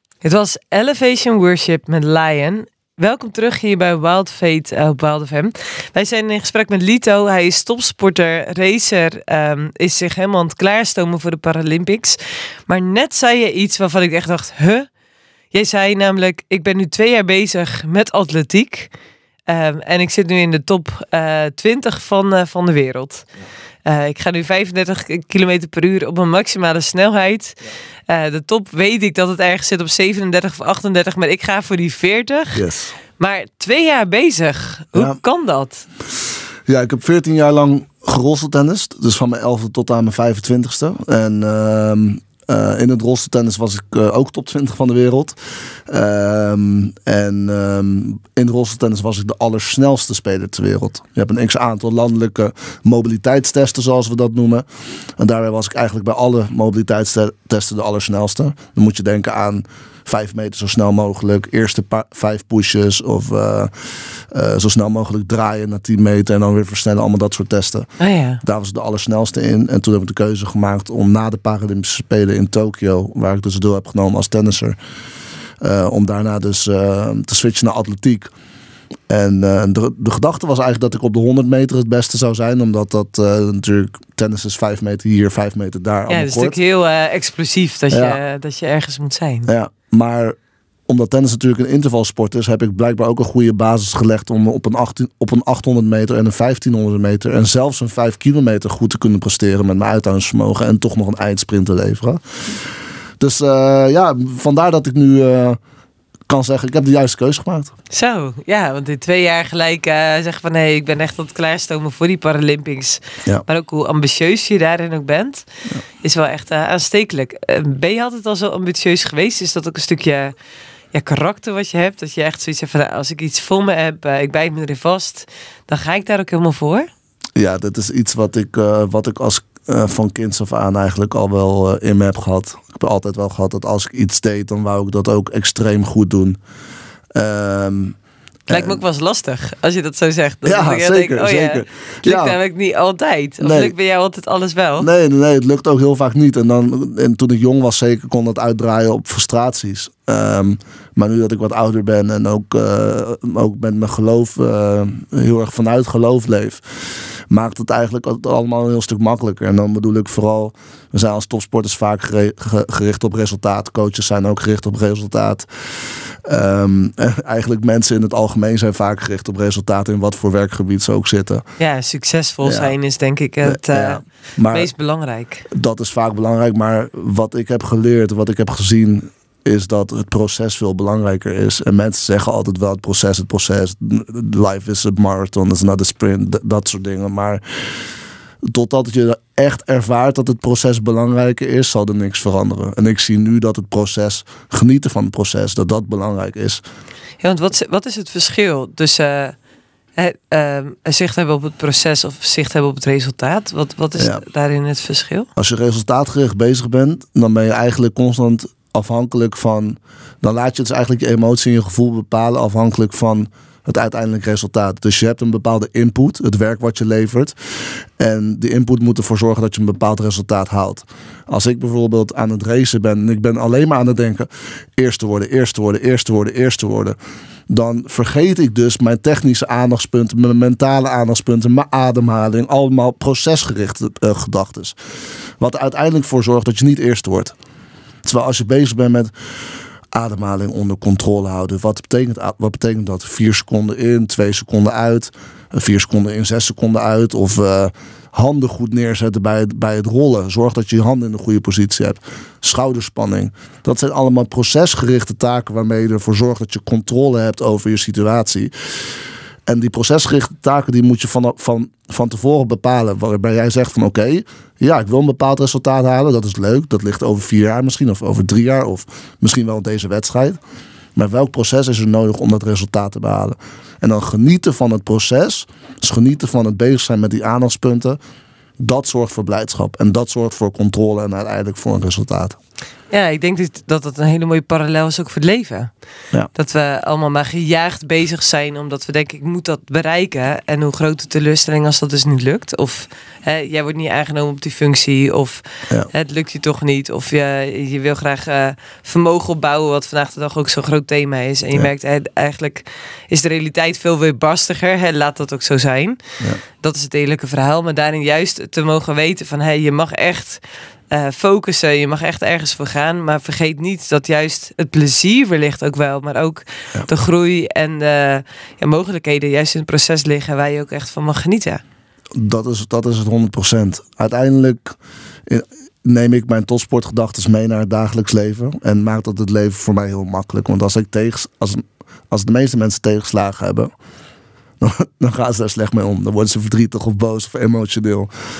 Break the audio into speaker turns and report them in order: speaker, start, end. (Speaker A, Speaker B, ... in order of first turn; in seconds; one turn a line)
Speaker A: 0.2-14.9
Speaker A: 15.5-18.9
Speaker A: 19.5-23.3
Speaker A: 23.8-32.7
Speaker B: 32.5-32.9
Speaker A: 33.2-35.9
Speaker B: 36.7-45.4
Speaker B: 45.9-54.6
Speaker B: 55.2-63.7
Speaker B: 64.3-67.9
Speaker A: 68.0-68.4
Speaker B: 68.4-74.8
Speaker B: 75.6-78.3
Speaker B: 79.1-86.5
Speaker A: 86.1-89.5
Speaker B: 87.9-88.2
Speaker B: 89.5-90.4
Speaker B: 90.9-102.2
Speaker B: 103.2-105.6
Speaker B: 106.3-107.7
Speaker A: 107.9-115.5
Speaker A: 116.0-120.3
Speaker A: 120.9-126.9
Speaker B: 127.3-136.4
Speaker B: 137.1-137.9
Speaker B: 138.5-138.8
Speaker A: 138.5-144.9
Speaker B: 140.4-142.4
Speaker B: 143.4-143.7
Speaker B: 144.8-156.6
Speaker B: 157.3-171.4
Speaker A: 171.6-175.5
Speaker B: 172.4-172.7
Speaker B: 173.4-174.7
Speaker B: 175.5-187.4
Speaker B: 188.5-196.6
Speaker A: 197.2-199.3
Speaker A: 199.9-205.3
Speaker B: 204.0-204.2
Speaker B: 205.3-217.3
Speaker B: 218.0-226.9
Speaker B: 227.5-234.8
Speaker B: 235.4-237.3
Speaker B: 238.0-239.1
Speaker B: 239.9-258.5
Speaker B: 259.5-270.4
Speaker B: 270.9-278.0
Speaker B: 278.6-282.4
Speaker A: 282.9-285.7
Speaker A: 286.3-321.6
Speaker B: 322.1-333.7
Speaker B: 334.6-338.1